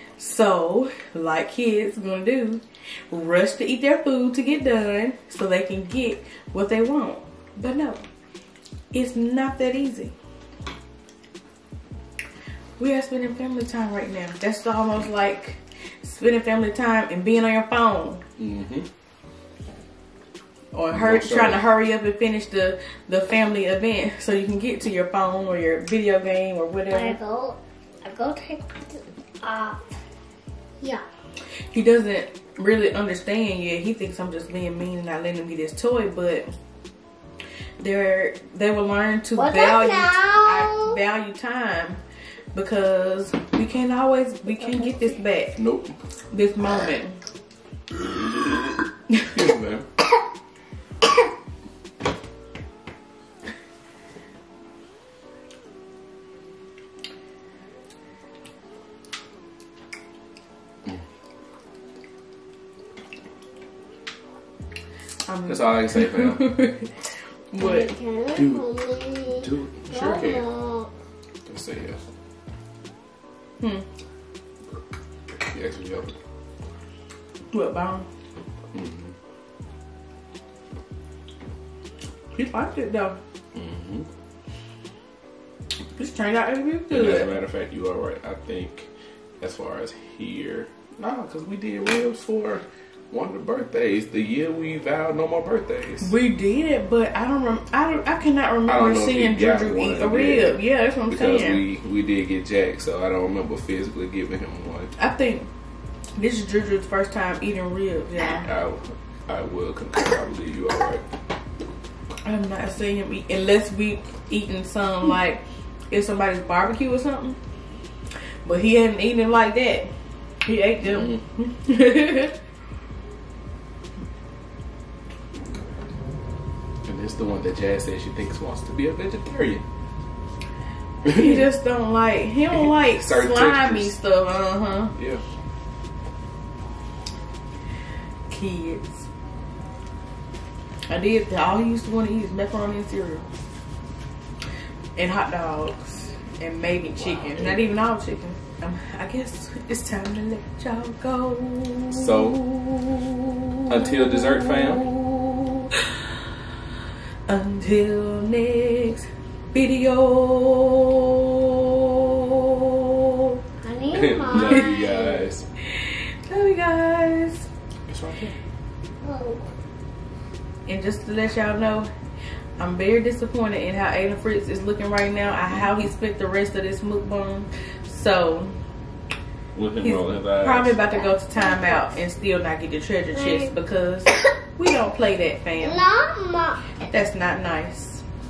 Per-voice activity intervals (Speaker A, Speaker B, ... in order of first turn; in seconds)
Speaker A: 0.2-8.0, 8.9-10.1, 12.8-18.2, 20.7-27.2, 31.7-36.5, 37.8-42.0, 42.5-45.6, 46.3-47.2, 65.2-66.9, 67.5-67.9, 73.6-73.8, 77.5-78.0, 82.3-83.2, 86.0-87.3, 96.0-101.6, 105.0-105.5, 106.2-108.5, 112.2-117.4, 118.4-119.9, 120.4-122.3, 131.1-134.9, 138.3-139.1, 140.9-143.2, 144.9-155.8, 157.3-163.4, 165.7-167.5, 170.7-171.9, 172.6-178.6, 179.8-185.8, 186.9-188.0
Speaker B: 18.4-18.9, 20.9-21.6, 45.6-45.9, 49.2-49.9, 65.5-66.5, 68.3-68.6, 69.3-70.5, 71.5-72.0, 75.4-76.2, 78.7-79.1, 83.5-84.1, 86.9-88.9, 89.4-96.1, 98.7-104.9, 108.2-111.0, 120.9-121.2, 126.8-129.6, 131.0-131.3, 132.5-133.9, 134.9-135.2, 147.0-147.8, 151.9-152.4, 153.7-154.9, 163.9-165.4, 167.9-168.3, 179.5-180.8
Speaker C: 26.9-30.0, 30.8-31.1, 39.3-41.0, 44.7-45.0, 67.6-70.9, 163.6-165.2, 169.0-169.5, 181.3-181.9, 183.1-183.5, 185.6-186.7